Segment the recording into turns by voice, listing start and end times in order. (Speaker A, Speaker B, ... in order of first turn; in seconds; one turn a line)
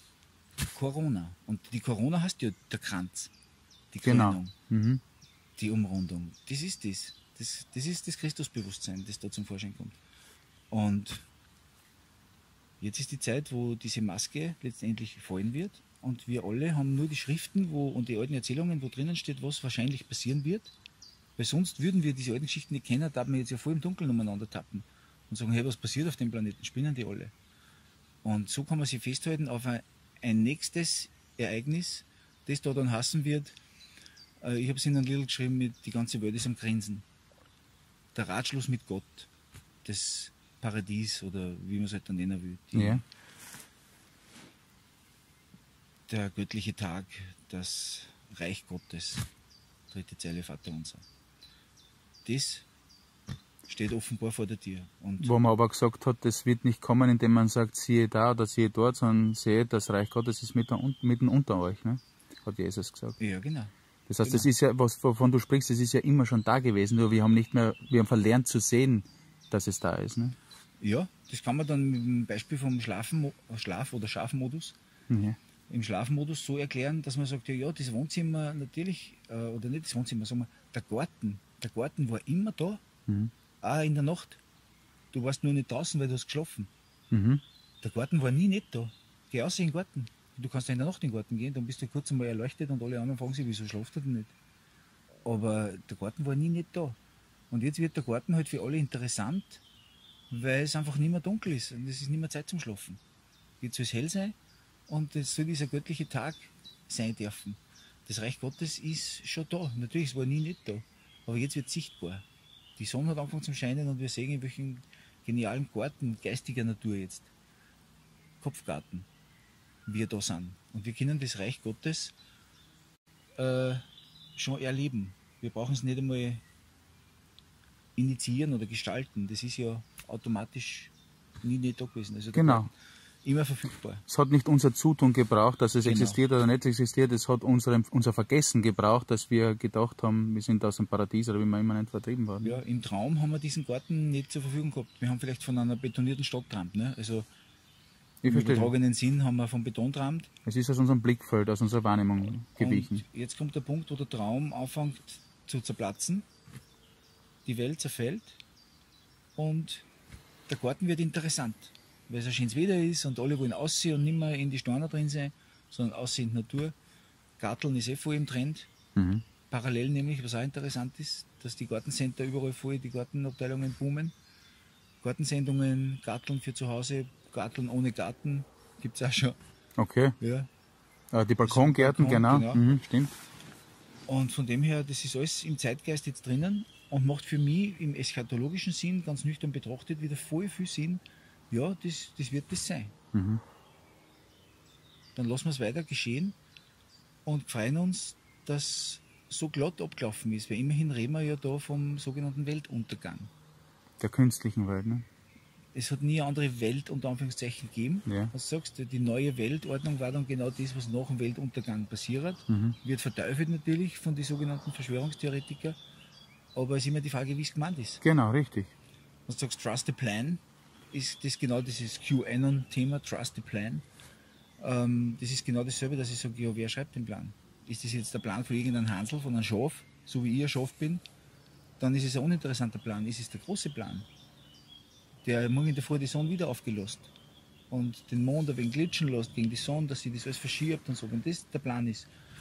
Speaker A: 0.7-3.3
Speaker A: 3.9-4.5
Speaker B: 4.0-5.0
Speaker A: 5.6-10.0
Speaker A: 10.7-11.2
Speaker A: 12.8-20.7
Speaker A: 21.4-27.3
Speaker A: 28.2-33.6
Speaker A: 34.4-37.0
Speaker A: 38.1-39.3
Speaker A: 39.8-43.0
Speaker B: 42.7-43.0
Speaker A: 46.1-49.3
Speaker A: 49.9-51.0
Speaker A: 52.2-52.6
Speaker A: 53.7-55.3
Speaker B: 55.2-63.2
Speaker A: 63.2-63.7
Speaker B: 64.1-70.3
Speaker A: 64.2-64.5
Speaker A: 70.8-74.7
Speaker B: 75.1-75.4
Speaker A: 75.7-82.8
Speaker B: 83.1-83.3
Speaker A: 83.6-84.4
Speaker A: 85.1-86.7
Speaker B: 87.1-87.4
Speaker A: 87.8-94.3
Speaker A: 95.2-97.0
Speaker A: 97.5-99.6
Speaker A: 100.3-103.0
Speaker A: 103.6-104.3
Speaker A: 104.9-112.2
Speaker A: 112.8-117.3
Speaker A: 118.4-119.1
Speaker A: 119.8-122.1
Speaker A: 123.4-123.8
Speaker A: 124.4-126.4
Speaker A: 128.0-130.9
Speaker A: 131.4-132.7
Speaker B: 132.3-132.7
Speaker A: 133.2-134.0
Speaker B: 134.1-142.6
Speaker A: 135.8-136.2
Speaker A: 142.4-147.3
Speaker B: 148.2-148.7
Speaker A: 148.2-150.3
Speaker B: 150.4-153.0
Speaker A: 152.6-156.2
Speaker A: 157.4-158.4
Speaker A: 159.4-159.8
Speaker A: 160.5-166.7
Speaker A: 167.4-168.7
Speaker B: 168.9-169.2
Speaker A: 169.5-174.1
Speaker A: 175.0-179.4
Speaker B: 179.8-180.2
Speaker A: 180.2-180.5
Speaker B: 181.1-183.1
Speaker A: 181.4-182.6
Speaker A: 184.1-192.9
Speaker B: 193.1-193.4
Speaker A: 195.2-196.3
Speaker A: 197.2-203.3
Speaker B: 204.0-205.1
Speaker A: 205.7-215.8
Speaker B: 208.1-208.3
Speaker B: 212.5-212.8
Speaker A: 216.5-218.0
Speaker B: 218.0-218.7
Speaker A: 219.3-223.8
Speaker A: 224.6-231.0
Speaker A: 231.8-234.1
Speaker A: 235.2-237.1
Speaker A: 237.7-242.1